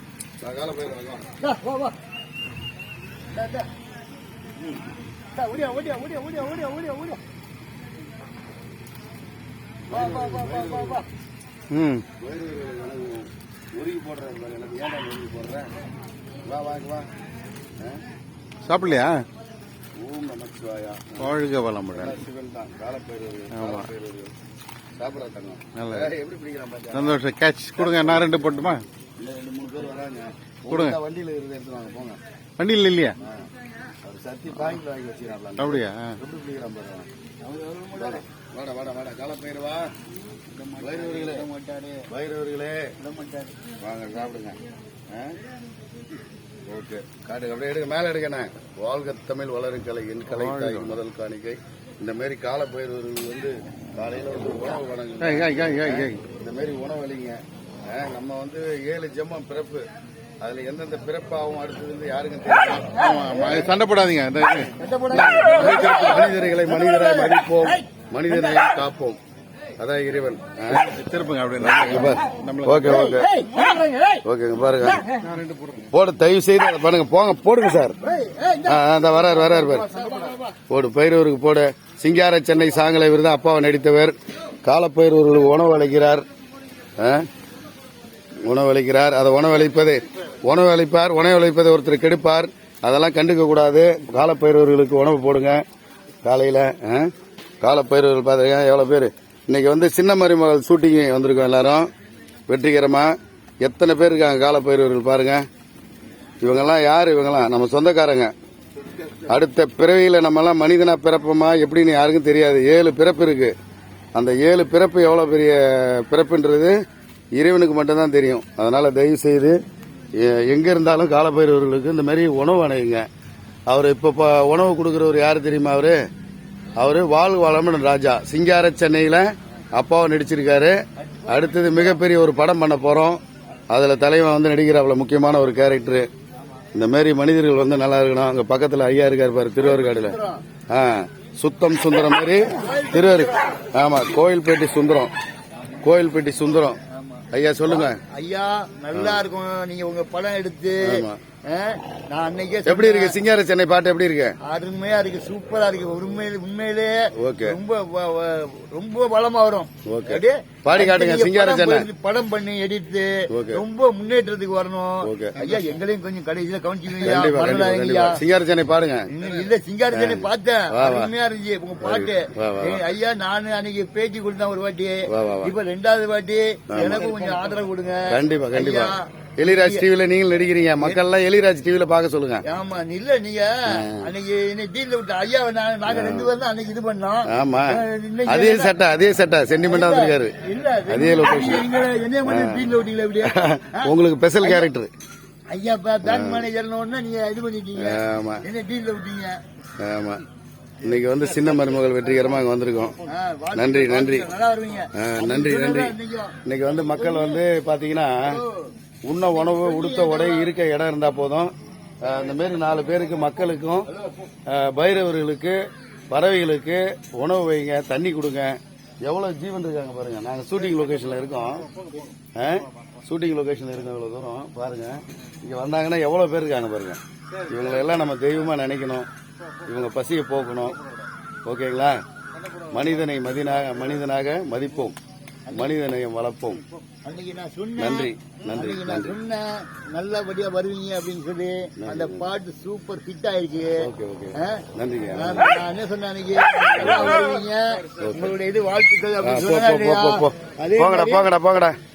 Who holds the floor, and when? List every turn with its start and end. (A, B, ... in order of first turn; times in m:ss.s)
0:00.4-0:01.3 A
0:01.4-0:01.9 B
0:03.3-0:03.7 B
0:05.4-0:07.2 B
0:09.9-0:11.0 A
0:09.9-0:11.0 B
0:11.7-0:12.0 C
0:12.1-0:15.7 A
0:16.4-0:17.1 A
0:18.6-0:19.2 C
0:20.0-0:21.4 A
0:21.2-0:22.2 C
0:21.9-0:24.3 A
0:23.5-0:23.9 C
0:25.0-0:27.2 A
0:25.8-0:26.1 C
0:26.9-0:28.8 C
0:27.8-0:28.7 A
0:29.2-0:32.2 A
0:30.7-0:31.0 C
0:32.6-0:33.2 C
0:33.2-0:33.5 A
0:34.0-0:37.1 A
0:35.6-0:36.2 C
0:37.4-0:38.2 B
0:37.9-0:39.9 A
0:40.5-0:42.0 B
0:40.8-0:41.5 A
0:42.1-0:42.9 A
0:43.0-0:43.5 B
0:43.8-0:45.4 A
0:46.7-0:59.8 A
0:50.3-0:51.0 C
0:55.2-0:56.2 C
1:00.4-1:03.7 A
1:02.7-1:04.7 C
1:04.8-1:08.6 B
1:05.1-1:09.2 A
1:05.4-1:05.7 C
1:09.8-1:10.9 A
1:10.7-1:13.2 C
1:11.6-1:13.3 A
1:12.9-1:14.2 B
1:14.2-1:15.1 A
1:14.8-1:15.2 B
1:15.2-1:15.9 C
1:15.9-1:18.0 A
1:18.0-1:20.5 B
1:18.6-1:19.9 A
1:20.7-1:26.2 A
1:27.0-1:27.2 A
1:28.4-1:35.6 A
1:36.2-1:37.1 A
1:37.6-1:41.9 A
1:42.5-1:45.4 A
1:46.4-1:48.3 A
1:49.2-1:53.5 A
1:54.1-1:56.8 A
1:57.3-1:59.6 A
2:00.1-2:03.1 A
2:03.7-2:06.0 A
2:06.8-2:16.1 A
2:11.0-2:12.0 B
2:16.7-2:20.2 A
2:19.6-2:20.4 B
2:20.7-2:25.1 A
2:22.5-2:23.6 B
2:25.8-2:26.8 A
2:26.9-2:33.2 B
2:27.3-2:28.0 A
2:28.9-2:29.2 A
2:30.8-2:31.2 A
2:32.6-2:34.4 A
2:34.4-2:48.2 B
2:37.1-2:37.6 A
2:39.8-2:41.9 A
2:43.3-2:43.6 A
2:45.0-2:45.6 A
2:47.0-2:49.1 A
2:49.1-2:59.8 B
2:49.9-2:51.1 A
2:51.8-2:52.8 A
2:55.1-2:55.5 A
2:56.7-2:57.2 A
2:58.1-3:02.4 A
3:02.4-3:08.7 B
3:03.7-3:04.1 A
3:05.9-3:06.3 A
3:07.3-3:10.3 A
3:09.7-3:14.6 B
3:10.9-3:11.6 A
3:12.2-3:12.7 A
3:13.2-3:14.9 A
3:15.5-3:19.4 B
3:16.0-3:16.5 A
3:17.8-3:18.4 A
3:19.8-3:20.2 A
3:20.8-3:23.0 A
3:23.0-3:27.4 B
3:23.5-3:24.3 A
3:25.0-3:28.4 A
3:28.2-3:28.7 B
3:29.0-3:31.5 A
3:29.3-3:30.5 B
3:32.0-3:33.9 A
3:34.5-3:35.6 A
3:36.1-3:41.7 A
3:42.4-3:49.1 A
3:49.6-3:50.8 A
3:51.4-3:52.0 A
3:52.7-3:55.0 A
3:55.4-3:55.8 B
3:55.5-3:56.6 A
3:57.0-4:11.3 B
3:57.8-3:59.2 A
4:01.8-4:02.2 A
4:03.8-4:05.6 A
4:06.8-4:07.3 A
4:08.0-4:08.3 A
4:09.2-4:11.8 A